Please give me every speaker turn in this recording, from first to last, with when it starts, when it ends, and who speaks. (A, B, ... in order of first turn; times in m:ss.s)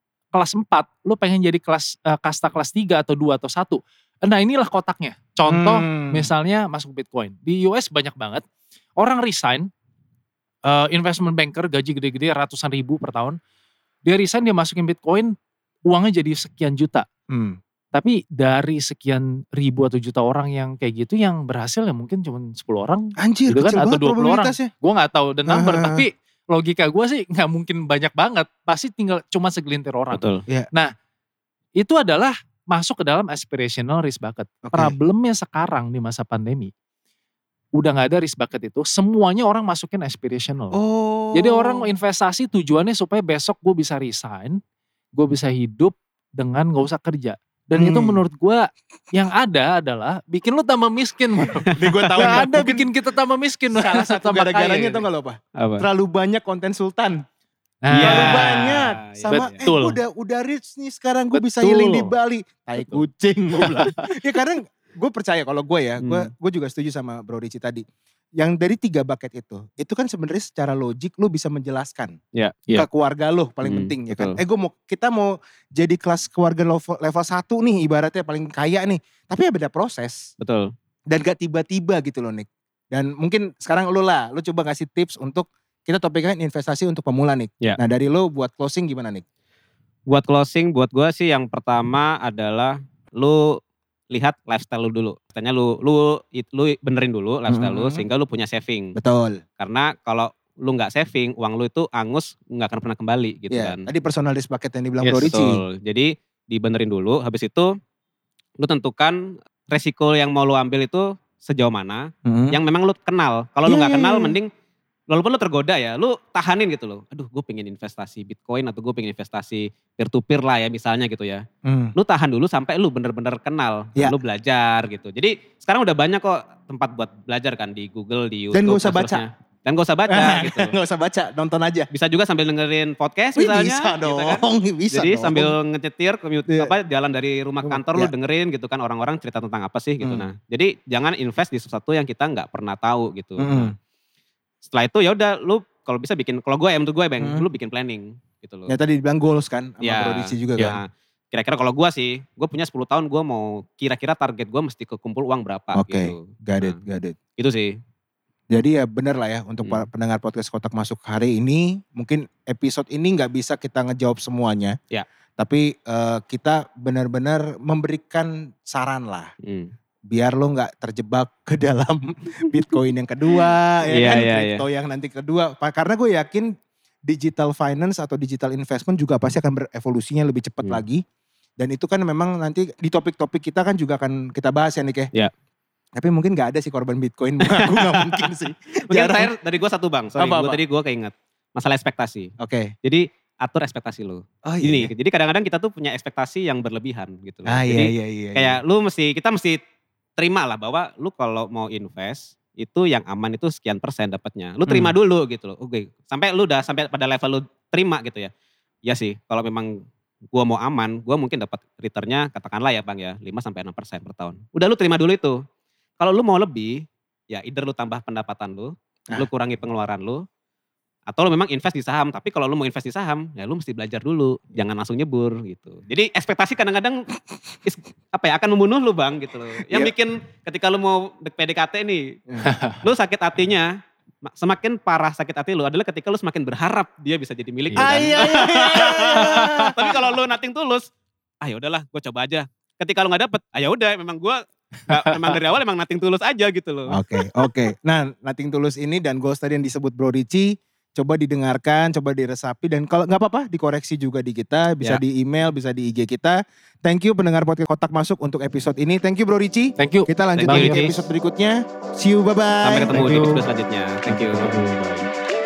0:00.3-0:08.4 A
0:05.5-0:06.3 B
0:09.0-0:09.7 A
0:10.6-0:13.4 A
0:14.0-0:15.3 A
0:15.9-0:17.1 A
0:17.3-0:17.6 B
0:17.9-0:30.9 A
0:23.2-0:24.7 B
0:25.5-0:26.0 B
0:30.1-0:30.4 C
0:31.8-0:36.7 A
0:34.6-0:35.0 B
0:37.8-0:40.8 A
0:40.7-0:41.9 B
0:41.3-0:44.6 A
0:45.2-0:55.0 A
0:47.8-0:48.2 B
0:51.8-0:52.9 B
0:51.8-0:52.5 C
0:53.7-0:57.2 B
0:55.6-0:55.9 C
0:57.8-0:58.7 A
0:57.9-0:59.5 C
0:58.0-1:07.8 B
0:59.3-1:00.0 A
1:01.3-1:02.1 A
1:03.6-1:04.1 A
1:06.0-1:06.3 C
1:08.4-1:12.2 B
1:12.8-1:20.3 B
1:13.6-1:14.4 C
1:20.4-1:20.7 C
1:21.1-1:29.2 B
1:30.1-1:33.6 C
1:34.1-1:39.0 C
1:37.5-1:38.0 B
1:39.0-1:39.4 B
1:39.6-1:43.9 C
1:43.5-1:45.6 B
1:45.0-1:45.3 A
1:45.2-1:47.7 C
1:48.6-1:54.5 C
1:52.3-1:52.6 B
1:53.7-1:54.4 B
1:55.1-2:01.4 C
2:01.6-2:02.0 B
2:02.0-2:10.7 C
2:08.5-2:09.2 B
2:10.1-2:11.9 B
2:11.9-2:23.7 C
2:13.4-2:15.5 B
2:16.5-2:16.7 B
2:17.7-2:18.1 B
2:23.4-2:23.7 B
2:24.6-2:28.8 C
2:27.2-2:27.5 B
2:28.7-2:30.8 B
2:29.8-2:36.8 C
2:35.7-2:37.2 B
2:37.4-2:37.7 C
2:38.5-2:44.8 B
2:45.4-2:49.3 B
2:49.4-2:49.7 C
2:50.1-2:56.5 B
2:53.9-2:54.6 C
2:57.1-3:01.0 B
3:01.6-3:05.1 B
3:06.0-3:09.3 B
3:07.4-3:08.4 C
3:08.9-3:12.3 C
3:10.2-3:10.6 B
3:12.4-3:12.7 B
3:12.8-3:19.6 C
3:14.4-3:14.9 B
3:17.5-3:18.6 B
3:20.2-3:28.3 C
3:24.7-3:25.0 B
3:28.9-3:35.4 C
3:36.0-3:40.2 C
3:41.1-3:47.1 C
3:47.6-3:52.2 C
3:49.7-3:49.9 B
3:52.4-3:52.8 A
3:52.8-3:53.7 C
3:54.2-4:00.9 C
3:57.7-3:58.2 A
3:57.8-4:00.0 B
3:59.1-3:59.7 A
4:01.4-4:07.0 C
4:04.9-4:05.3 A
4:06.9-4:22.9 B
4:19.8-4:20.9 A
4:20.4-4:21.0 C
4:22.6-4:24.5 C
4:22.9-4:23.4 A
4:24.1-4:25.1 A